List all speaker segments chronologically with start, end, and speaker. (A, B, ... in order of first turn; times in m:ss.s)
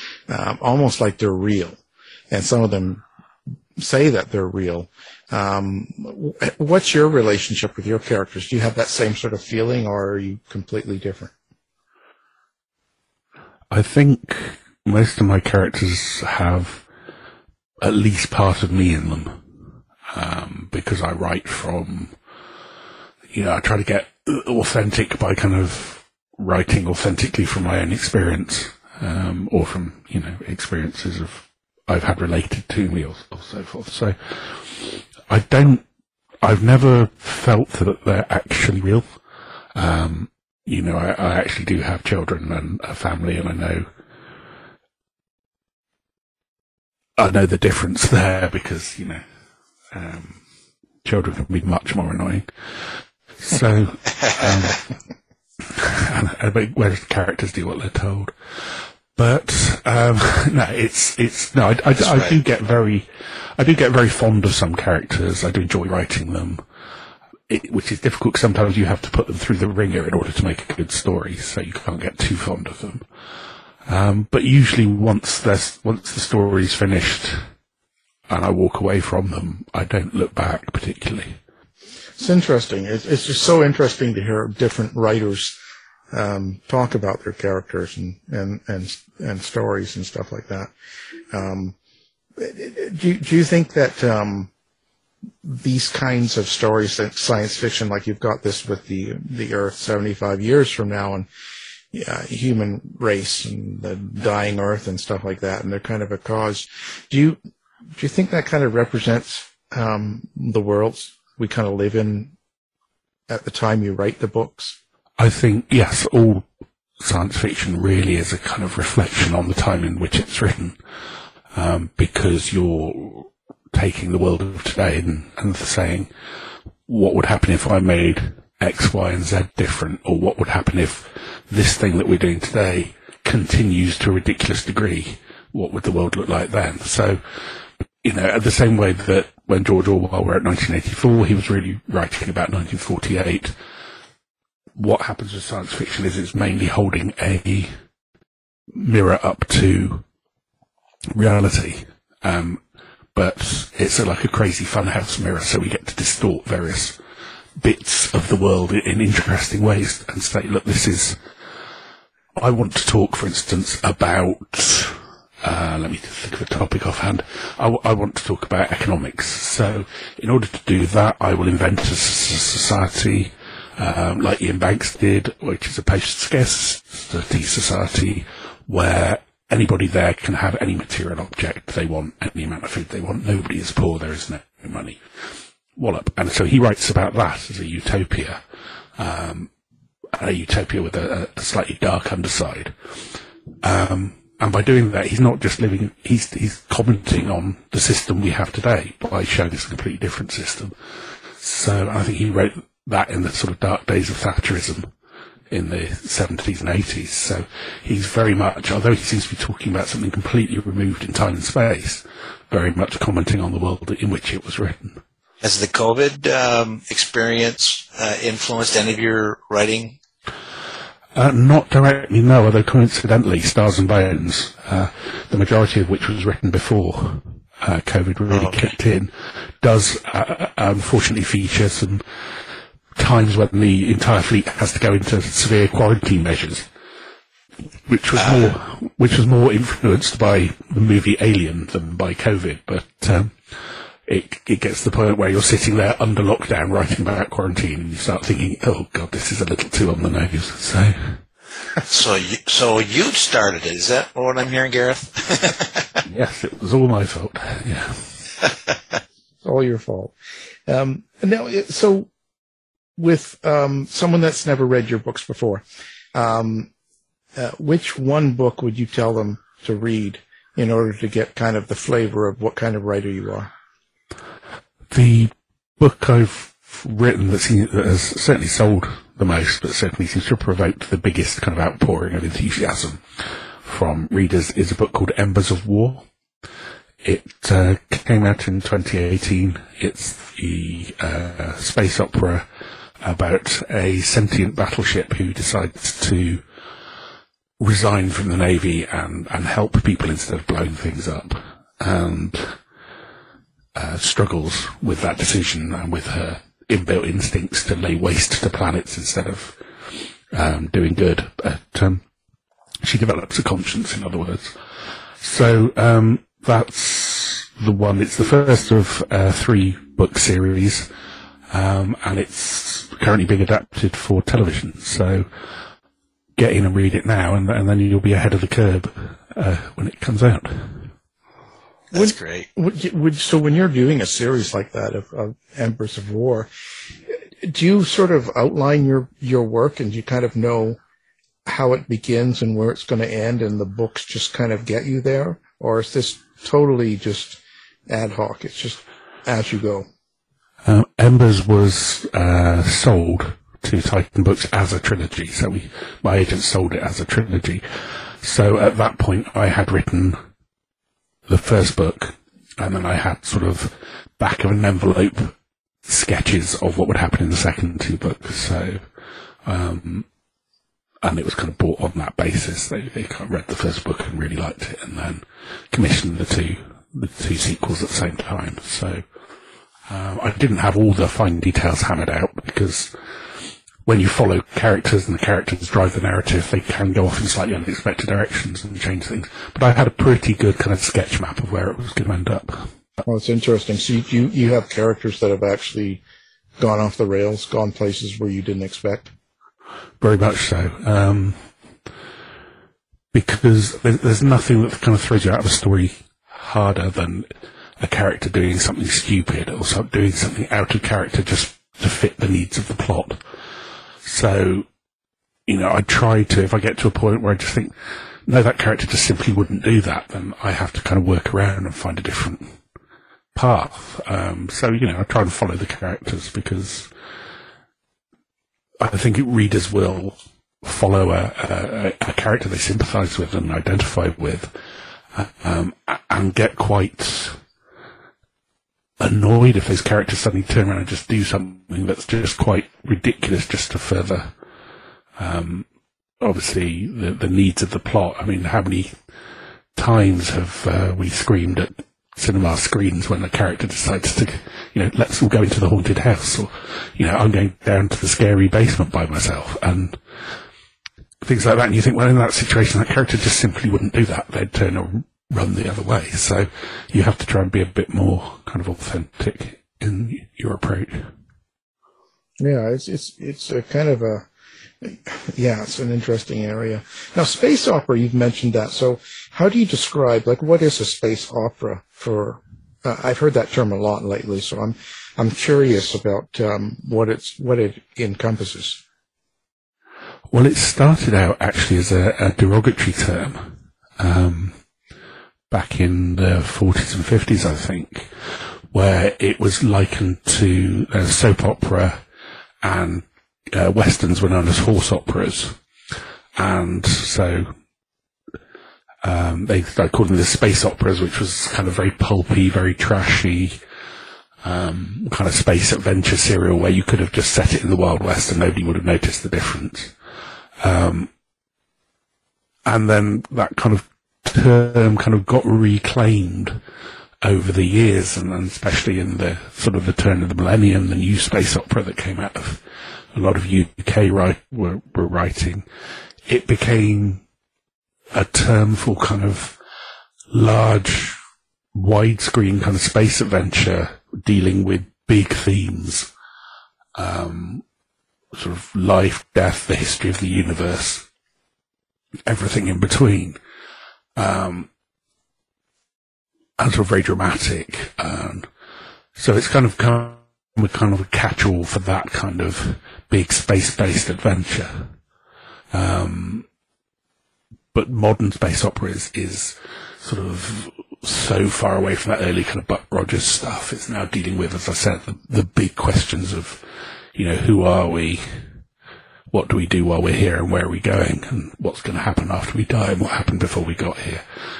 0:00.3-0:01.8 A
0:02.3-0:03.0 A
0:03.8-0:11.3 A
0:13.7-0:16.8 B
0:17.8-0:19.4 B
0:20.1-0:22.1 B
0:23.3-0:35.8 B
0:36.4-0:39.1 B
0:39.7-0:43.9 B
0:47.2-0:49.2 B
0:49.9-0:50.4 B
0:51.0-0:54.8 B
0:55.6-1:06.6 B
1:07.5-1:13.0 B
1:13.8-1:17.4 B
1:18.3-1:21.4 B
1:22.2-1:25.6 A
1:26.1-1:30.7 A
1:31.3-1:31.7 A
1:32.4-1:34.5 A
1:35.4-1:41.3 A
1:41.9-1:47.4 A
1:48.0-1:52.3 A
1:53.3-1:54.8 A
1:55.2-1:56.4 B
1:57.0-2:00.8 B
2:01.5-2:06.1 B
2:06.9-2:17.2 B
2:18.0-2:23.5 B
2:24.7-2:27.7 B
2:28.7-2:30.0 B
2:31.1-2:32.6 B
2:33.1-2:37.0 B
2:37.6-2:41.2 B
2:42.4-3:05.0 B
3:05.8-3:08.4 B
3:09.0-3:09.5 B
3:10.1-3:12.7 B
3:13.6-3:20.7 B
3:21.4-3:24.9 B
3:25.5-3:35.0 B
3:35.4-3:40.0 C
3:41.1-3:52.0 B
3:48.3-3:48.6 C
3:53.0-3:56.7 B
3:57.8-4:03.4 B
3:58.2-3:58.5 C
4:04.0-4:11.2 B
4:11.8-4:15.9 C
4:16.0-4:18.1 B
4:19.4-4:20.1 A
4:20.7-4:22.1 A
4:23.0-4:25.6 A
4:26.1-4:26.7 A
4:27.4-4:33.5 A
4:34.9-4:43.0 B
4:43.6-4:46.0 B
4:47.0-4:52.5 B
4:53.0-4:56.4 B
4:57.6-5:02.6 B
5:03.7-5:12.0 B
5:12.8-5:14.6 B
5:15.2-5:20.9 B
5:21.5-5:25.3 B
5:26.4-5:30.9 B
5:31.9-5:32.5 C
5:31.9-5:36.5 A
5:37.4-5:40.8 A
5:41.4-5:49.9 A
5:50.6-6:00.2 B
6:01.3-6:08.8 B
6:09.4-6:10.0 B
6:11.0-6:19.0 B
6:19.9-6:22.9 B
6:23.8-6:32.7 B
6:33.0-6:36.0 A
6:36.6-6:39.1 A
6:40.0-6:41.4 B
6:43.1-6:53.2 B
6:54.0-6:54.7 B
6:55.5-6:57.7 B
6:58.2-7:02.5 B
7:03.3-7:06.9 B
7:08.8-7:14.5 B
7:15.1-7:17.4 B
7:19.0-7:24.3 B
7:25.2-7:25.7 B
7:26.2-7:29.0 B
7:29.8-7:40.0 B
7:41.2-7:51.1 B
7:52.4-7:54.3 A
7:54.8-8:08.8 A
8:10.3-8:14.6 B
8:15.5-8:22.0 B
8:22.6-8:25.6 B
8:26.4-8:27.5 B
8:29.0-8:33.6 B
8:34.4-8:39.9 B
8:40.6-8:41.1 B
8:42.6-8:46.6 B
8:47.2-8:55.6 B
8:56.3-8:57.2 B
8:58.1-8:59.6 B
9:00.3-9:01.2 B
9:01.7-9:06.1 B
9:07.0-9:07.6 B
9:08.3-9:11.0 B
9:12.2-9:13.4 B
9:14.2-9:14.7 B
9:16.6-9:18.5 B
9:19.2-9:24.9 B
9:25.7-9:26.4 B
9:27.7-9:36.6 B
9:37.1-9:38.4 B
9:39.3-9:44.2 B